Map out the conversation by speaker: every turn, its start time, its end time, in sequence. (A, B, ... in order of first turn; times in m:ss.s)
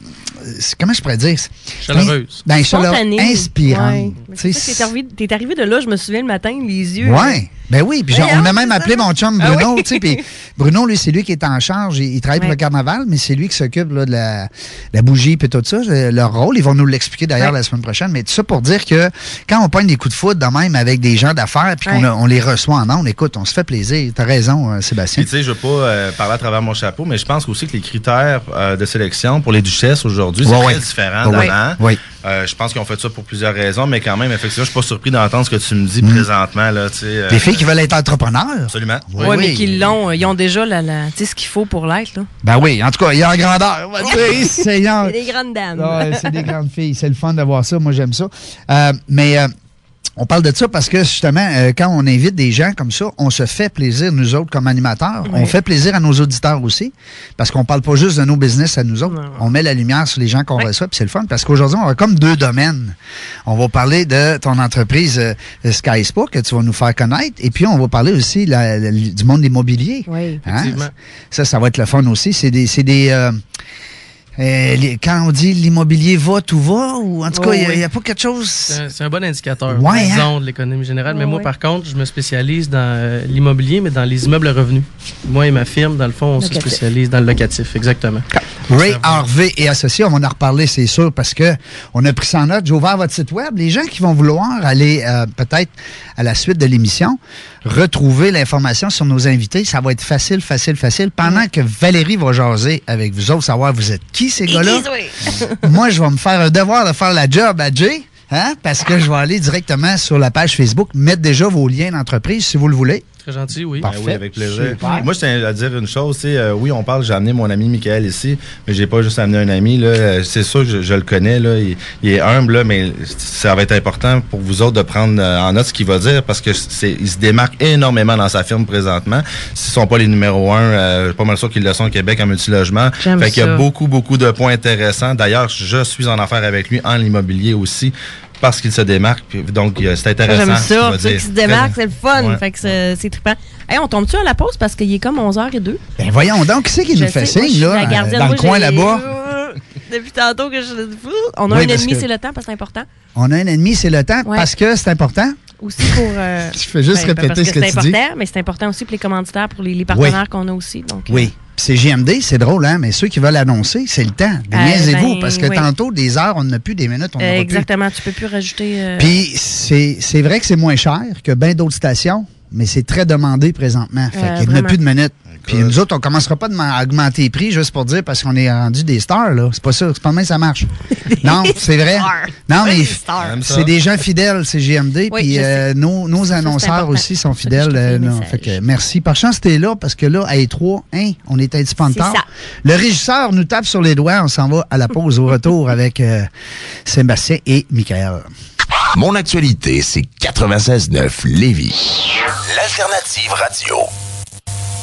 0:00.4-0:04.9 A
0:01.8-0:02.4 B
0:02.7-0:07.4 C
0:07.0-0:25.3 A
0:08.1-0:10.2 C
0:25.2-0:37.6 D
0:30.4-0:32.0 A
0:31.3-0:31.6 C
0:37.3-0:39.9 A
0:38.7-0:39.9 D
0:39.2-0:42.3 C
0:42.4-0:45.2 A
0:44.1-0:46.4 C
0:45.8-0:49.5 A
0:50.2-1:13.4 A
0:55.2-0:55.5 C
0:59.1-0:59.5 C
1:10.1-1:10.4 C
1:10.5-1:10.9 B
1:14.4-1:18.8 A
1:17.3-1:17.8 C
1:18.7-1:28.3 B
1:19.7-1:20.3 A
1:21.1-1:21.5 C
1:26.4-1:26.8 C
1:28.4-1:44.9 A
1:28.8-1:29.2 B
1:44.5-1:45.6 C
1:45.5-1:53.0 A
1:53.2-1:53.9 B
1:53.8-1:55.1 A
1:53.8-2:22.4 D
1:54.8-1:55.1 C
2:13.0-2:13.7 C
2:20.2-2:25.8 C
2:26.0-2:29.1 A
2:26.9-2:32.9 C
2:31.5-2:32.1 A
2:33.2-2:36.0 A
2:35.6-2:41.3 C
2:36.5-2:38.0 A
2:39.9-2:40.2 A
2:41.1-2:47.7 A
2:44.5-2:45.7 C
2:47.2-2:49.2 C
2:49.0-3:16.3 A
2:54.1-2:54.8 C
2:55.4-2:55.8 D
3:01.0-3:03.4 C
3:03.2-3:03.8 D
3:05.1-3:05.7 C
3:06.2-3:08.6 C
3:11.8-3:12.2 C
3:16.8-3:18.3 A
3:19.0-3:21.8 E
3:22.5-3:23.9 E